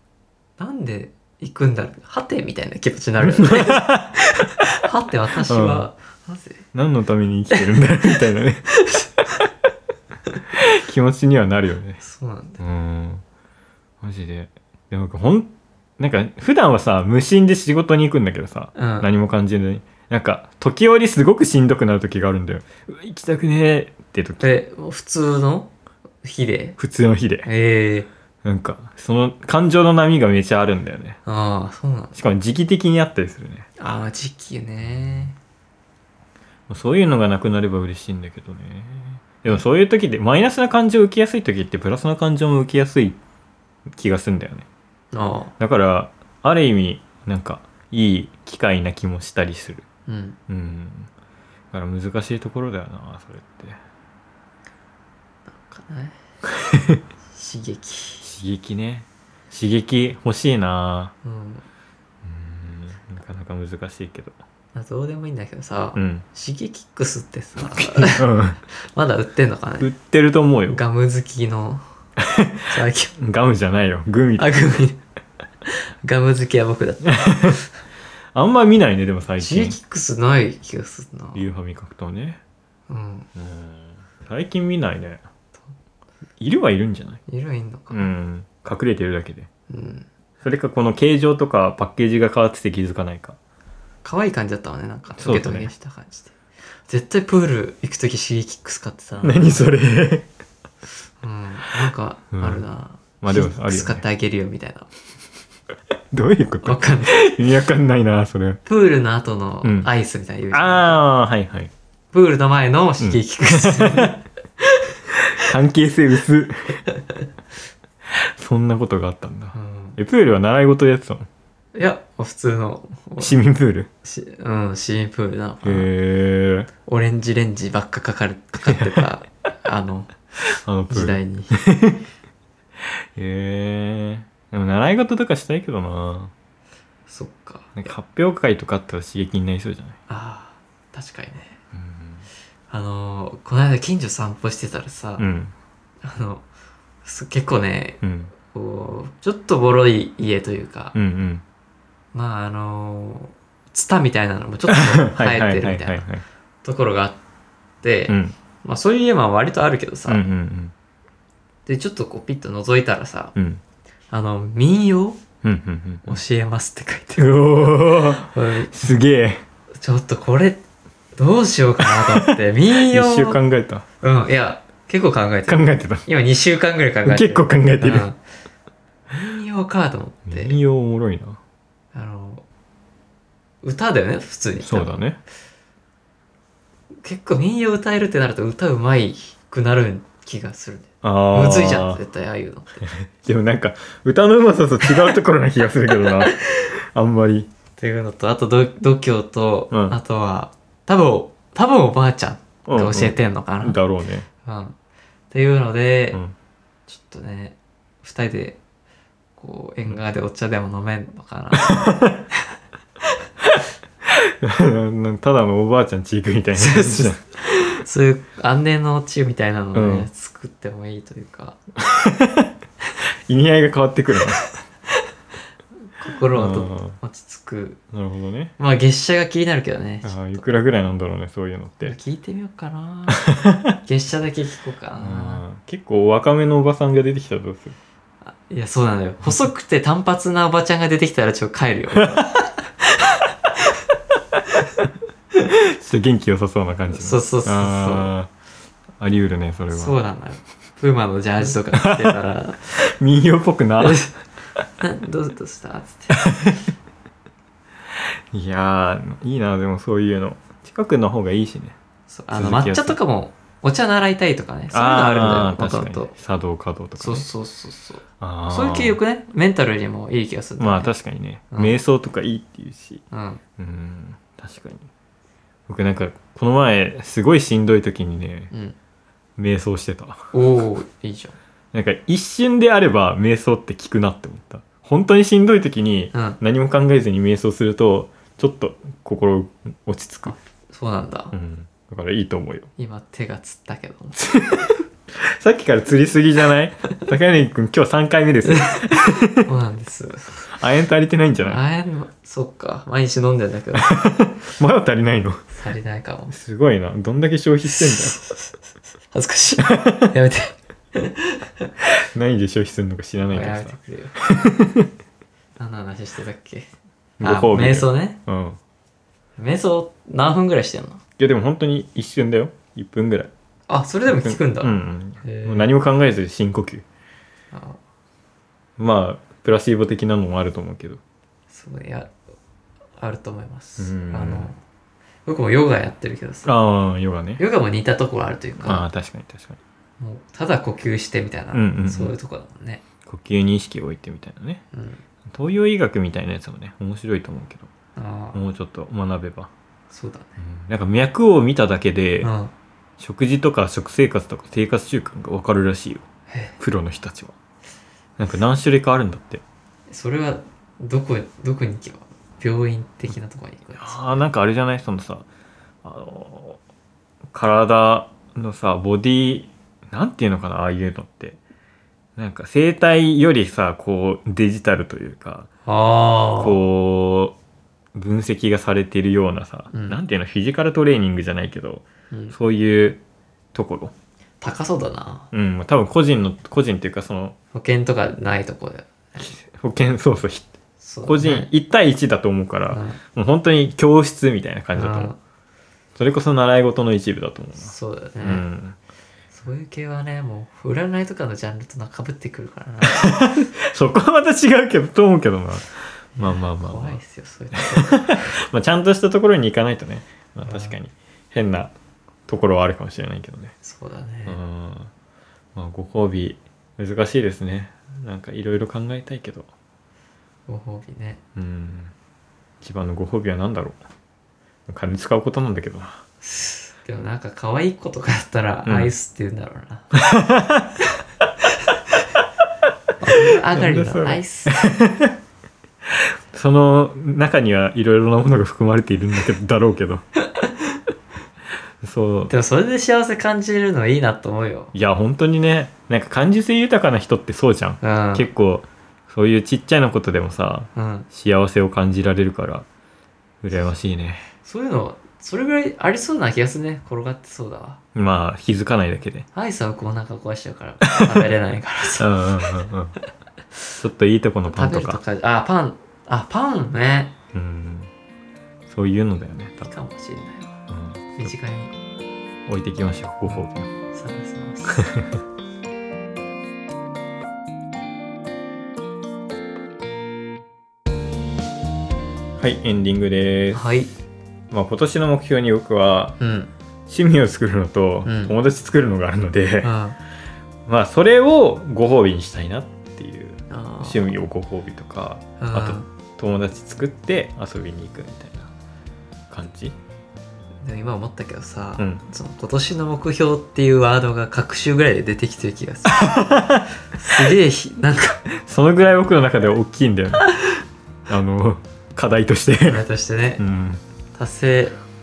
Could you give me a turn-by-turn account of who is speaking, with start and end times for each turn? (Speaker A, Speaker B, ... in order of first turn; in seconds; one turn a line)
Speaker A: 0.6-6.6
Speaker B: 3.2-4.6
Speaker B: 5.5-5.9
Speaker B: 6.7-8.7
Speaker A: 7.5-8.1
Speaker A: 8.8-9.4
Speaker B: 10.5-12.0
Speaker A: 12.0-12.6
Speaker B: 12.6-13.2
Speaker B: 14.0-24.4
Speaker A: 18.7-19.1
Speaker A: 24.4-25.7
Speaker A: 26.2-26.8
Speaker B: 26.8-27.5
Speaker A: 27.4-28.1
Speaker B: 28.4-31.2
Speaker A: 31.2-32.2
Speaker B: 32.1-33.7
Speaker A: 33.8-35.3
Speaker B: 34.8-35.3
Speaker B: 36.7-43.2
Speaker B: 43.9-44.6
Speaker A: 45.1-45.5
Speaker B: 45.6-49.8
Speaker A: 50.1-50.4
Speaker B: 50.5-51.1
Speaker B: 51.7-53.8
Speaker A: 55.5-56.1
Speaker B: 56.5-57.0
Speaker A: 57.3-58.2
Speaker B: 58.2-61.1
Speaker A: 61.2-61.6
Speaker B: 62.2-64.3
Speaker A: 64.7-69.9
Speaker B: 66.0-66.2
Speaker B: 67.7-68.6
Speaker B: 69.8-70.8
Speaker A: 70.7-71.8
Speaker B: 72.2-74.7
Speaker A: 72.7-73.1
Speaker A: 74.4-75.0
Speaker A: 75.7-77.6
Speaker B: 77.0-77.6
Speaker B: 78.3-79.8
Speaker A: 79.4-81.4
Speaker B: 81.3-82.4
Speaker A: 82.9-83.3
Speaker B: 83.3-85.2
Speaker B: 86.4-87.2
Speaker A: 87.3-88.1
Speaker B: 87.9-89.5
Speaker A: 89.7-90.1
Speaker B: 90.4-93.4
Speaker A: 94.0-96.3
Speaker B: 95.2-95.7
Speaker A: 96.9-99.6
Speaker B: 99.2-100.3
Speaker A: 101.2-104.9
Speaker B: 102.3-102.6
Speaker B: 103.2-104.0
Speaker B: 106.1-108.6
Speaker A: 106.6-107.2
Speaker A: 108.7-111.0
Speaker B: 109.6-109.9
Speaker B: 110.5-111.7
Speaker A: 112.1-115.5
Speaker B: 113.0-114.1
Speaker B: 115.3-116.8
Speaker B: 118.1-121.3
Speaker A: 119.5-120.0
Speaker A: 121.7-123.3
Speaker B: 123.2-123.9
Speaker A: 124.0-125.9
Speaker B: 125.6-126.7
Speaker A: 126.8-130.1
Speaker B: 128.7-129.0
Speaker B: 130.6-132.0
Speaker A: 130.9-131.5
Speaker B: 133.1-136.3
Speaker A: 137.1-137.7
Speaker B: 137.8-139.9
Speaker A: 140.1-141.6
Speaker B: 141.7-142.2
Speaker A: 142.7-145.2
Speaker B: 145.2-145.5
Speaker A: 146.0-146.4
Speaker A: 147.0-150.9
Speaker B: 148.0-148.3
Speaker B: 150.9-151.4
Speaker A: 152.1-156.1
Speaker B: 154.7-156.2
Speaker A: 156.6-157.2
Speaker A: 157.8-160.2
Speaker B: 158.1-158.3
Speaker B: 160.1-160.7
Speaker A: 161.7-163.3
Speaker B: 163.3-163.6
Speaker A: 164.1-165.2
Speaker B: 165.4-166.2
Speaker A: 166.0-168.8
Speaker B: 167.2-169.4
Speaker A: 169.8-170.6
Speaker A: 171.2-173.4
Speaker B: 171.8-173.8
Speaker A: 174.0-178.2
Speaker B: 175.5-176.0
Speaker B: 177.0-178.1
Speaker A: 179.1-180.6
Speaker B: 180.3-181.4
Speaker A: 181.9-182.4
Speaker A: 183.6-185.0
Speaker B: 184.6-185.2
Speaker A: 187.0-192.8
Speaker B: 191.0-192.0
Speaker B: 192.8-197.5
Speaker A: 196.2-196.7
Speaker A: 197.8-203.8
Speaker B: 199.7-199.9
Speaker B: 202.7-204.3
Speaker A: 204.4-204.8
Speaker A: 205.3-206.2
Speaker A: 206.9-208.6
Speaker A: 209.4-212.4
Speaker B: 211.6-212.2
Speaker B: 213.4-217.2
Speaker A: 216.6-221.6
Speaker B: 219.7-220.1
Speaker B: 221.8-222.5
Speaker B: 223.3-224.4
Speaker A: 225.9-227.8
Speaker B: 226.3-227.0
Speaker B: 227.9-228.5
Speaker A: 228.6-230.6
Speaker B: 230.0-231.9
Speaker A: 231.8-233.3
Speaker B: 233.1-233.7
Speaker A: 233.8-235.4
Speaker B: 235.0-237.8
Speaker A: 238.2-243.7
Speaker A: 244.5-244.8
Speaker B: 245.5-248.3
Speaker A: 246.9-248.1
Speaker B: 249.0-250.0
Speaker A: 249.7-252.6
Speaker B: 251.4-254.1
Speaker A: 253.8-254.1
Speaker A: 254.8-256.3
Speaker B: 256.1-256.6
Speaker B: 258.3-261.8
Speaker A: 262.1-266.1
Speaker B: 262.3-263.0
Speaker B: 264.7-267.2
Speaker A: 267.0-270.9
Speaker B: 268.2-269.0
Speaker B: 270.6-273.0
Speaker A: 271.5-271.8
Speaker A: 273.1-273.4
Speaker B: 273.6-274.9
Speaker B: 275.7-278.5
Speaker A: 278.5-278.8
Speaker B: 279.4-280.3
Speaker A: 280.3-281.4
Speaker B: 281.7-290.3
Speaker A: 286.1-286.4
Speaker A: 290.3-291.3
Speaker B: 291.3-292.7
Speaker A: 292.8-294.3
Speaker B: 294.2-299.5
Speaker A: 298.5-300.5
Speaker B: 300.5-301.6
Speaker A: 301.4-304.0
Speaker B: 303.7-305.4
Speaker A: 305.6-306.3
Speaker B: 306.3-308.2
Speaker A: 307.7-308.6
Speaker A: 309.1-311.7
Speaker B: 309.6-310.1
Speaker B: 311.8-314.9
Speaker A: 313.3-314.2
Speaker A: 315.6-316.7
Speaker B: 317.2-318.6
Speaker A: 317.2-318.2
Speaker A: 319.4-321.0
Speaker B: 321.2-323.3
Speaker A: 323.7-325.7
Speaker B: 324.1-326.8
Speaker A: 327.5-327.8
Speaker B: 328.8-331.0
Speaker A: 331.5-332.1
Speaker A: 333.0-334.6
Speaker B: 333.8-334.5
Speaker A: 335.2-336.5
Speaker B: 336.4-337.4
Speaker A: 337.4-338.9
Speaker B: 338.6-339.6
Speaker A: 340.0-342.8
Speaker B: 341.5-342.1
Speaker B: 343.0-344.6
Speaker A: 344.7-345.0
Speaker B: 345.3-347.7
Speaker A: 347.9-348.4
Speaker B: 348.3-349.5
Speaker A: 349.9-350.4
Speaker B: 350.4-352.3
Speaker A: 352.2-352.5
Speaker B: 353.0-356.0
Speaker B: 356.6-357.3
Speaker B: 358.2-359.4
Speaker A: 359.9-364.0
Speaker B: 363.8-365.2
Speaker B: 365.8-366.6
Speaker B: 367.3-371.4
Speaker B: 372.2-375.5
Speaker A: 375.6-376.6
Speaker B: 376.4-377.3
Speaker B: 377.9-383.0
Speaker A: 379.7-380.0
Speaker B: 383.5-383.9
Speaker A: 384.4-385.3
Speaker B: 385.3-387.3
Speaker A: 387.5-389.3
Speaker B: 389.2-390.5
Speaker A: 390.8-391.5
Speaker B: 391.0-395.1
Speaker A: 392.7-393.0
Speaker A: 394.8-395.2
Speaker B: 395.9-398.8
Speaker A: 397.6-398.5
Speaker A: 399.3-403.1
Speaker B: 402.9-407.0
Speaker A: 406.1-408.3
Speaker B: 407.5-411.7
Speaker A: 410.4-410.8
Speaker B: 412.3-413.5
Speaker A: 413.6-414.4
Speaker B: 414.2-414.9
Speaker B: 415.5-419.5
Speaker A: 420.5-421.2
Speaker B: 421.4-421.9
Speaker B: 422.6-423.8
Speaker B: 424.7-426.0
Speaker A: 426.2-429.9
Speaker B: 428.6-428.9
Speaker B: 429.9-430.8
Speaker A: 433.0-434.6
Speaker B: 433.1-435.2
Speaker B: 435.9-440.0
Speaker B: 441.8-442.3
Speaker A: 442.3-444.7
Speaker B: 444.7-452.6
Speaker A: 447.8-448.3
Speaker A: 450.7-451.1
Speaker B: 453.4-454.2
Speaker A: 454.4-457.8
Speaker B: 457.9-459.3
Speaker A: 459.3-462.1
Speaker B: 460.9-461.1
Speaker B: 462.0-462.9
Speaker B: 463.8-465.0
Speaker A: 464.5-467.1
Speaker B: 467.3-467.9
Speaker B: 468.7-469.7
Speaker A: 469.6-470.5
Speaker B: 470.7-471.3
Speaker A: 471.1-471.7
Speaker B: 472.5-473.7
Speaker A: 473.3-474.9
Speaker B: 474.7-475.1
Speaker B: 482.4-483.7
Speaker A: 483.5-483.9
Speaker B: 484.5-486.2
Speaker A: 486.2-486.5
Speaker B: 486.9-489.8
Speaker A: 488.1-488.3
Speaker A: 489.6-490.0
Speaker B: 490.7-498.5
Speaker A: 493.5-494.1
Speaker A: 495.4-495.9
Speaker B: 499.3-499.8
Speaker A: 500.6-506.2
Speaker B: 505.9-506.7
Speaker A: 506.9-508.2
Speaker B: 508.3-510.2
Speaker B: 511.1-512.8
Speaker A: 512.7-513.4
Speaker B: 513.4-513.8
Speaker A: 514.1-514.8